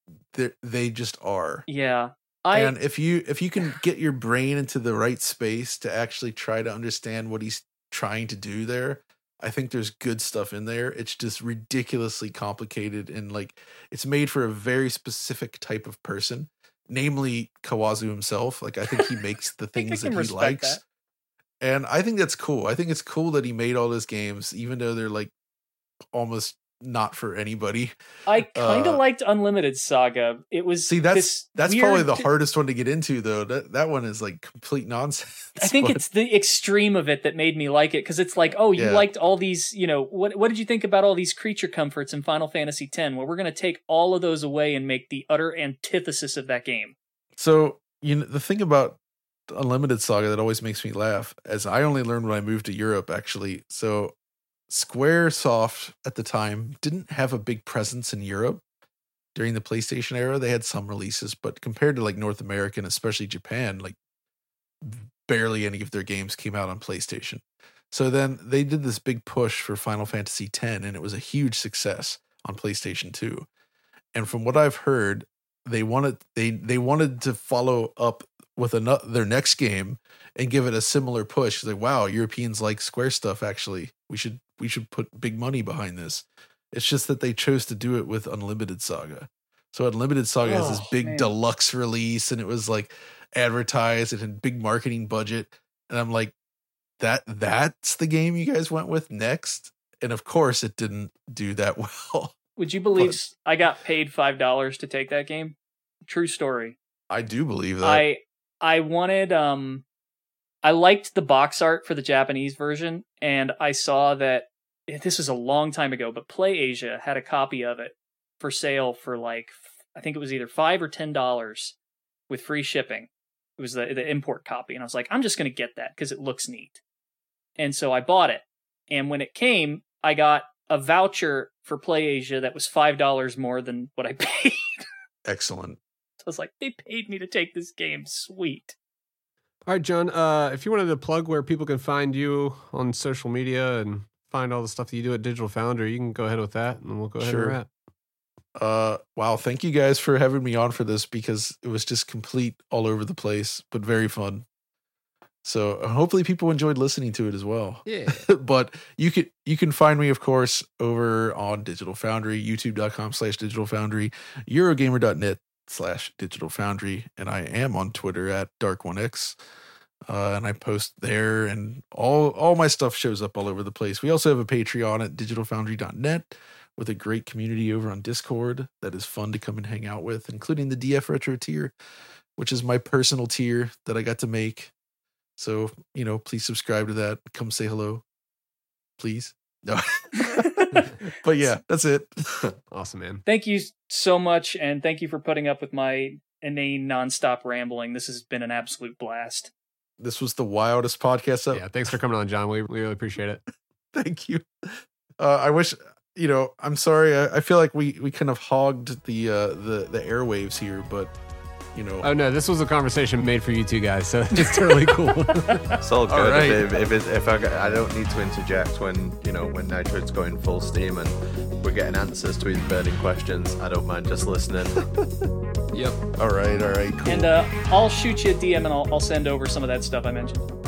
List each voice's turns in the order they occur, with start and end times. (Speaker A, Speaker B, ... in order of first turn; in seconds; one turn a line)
Speaker A: 0.3-1.6
Speaker B: 1.7-2.7
Speaker A: 2.5-20.8
Speaker B: 19.8-20.8
Speaker A: 21.6-25.3
Speaker A: 26.1-29.0
Speaker B: 28.3-32.3
Speaker A: 30.9-36.0
Speaker B: 35.6-46.9
Speaker A: 38.8-39.1
Speaker A: 47.4-49.0
Speaker A: 49.5-54.1
Speaker A: 54.7-58.6
Speaker A: 59.3-64.0
Speaker A: 64.8-73.5
Speaker A: 74.1-96.3
Speaker B: 90.4-91.3
Speaker A: 97.0-102.3
Speaker B: 102.6-106.8
Speaker A: 107.1-108.0
Speaker B: 107.8-109.8
Speaker B: 110.6-121.8
Speaker B: 122.3-126.8
Speaker B: 127.6-134.9
Speaker A: 135.2-135.8
Speaker B: 136.2-138.8
Speaker C: 139.6-147.7
Speaker A: 147.2-147.6
Speaker A: 148.6-154.4
Speaker A: 155.4-169.4
Speaker C: 157.8-158.3
Speaker A: 170.1-181.7
Speaker A: 182.4-184.7
Speaker A: 185.4-188.0
Speaker A: 189.0-192.5
Speaker B: 190.4-190.9
Speaker C: 192.7-193.2
Speaker B: 193.2-199.5
Speaker A: 200.0-201.6
Speaker C: 201.5-203.4
Speaker A: 203.9-211.1
Speaker A: 211.7-212.1
Speaker C: 212.0-215.7
Speaker D: 215.8-224.8
Speaker A: 216.1-216.7
Speaker C: 225.7-226.0
Speaker A: 226.2-227.3
Speaker B: 227.1-230.5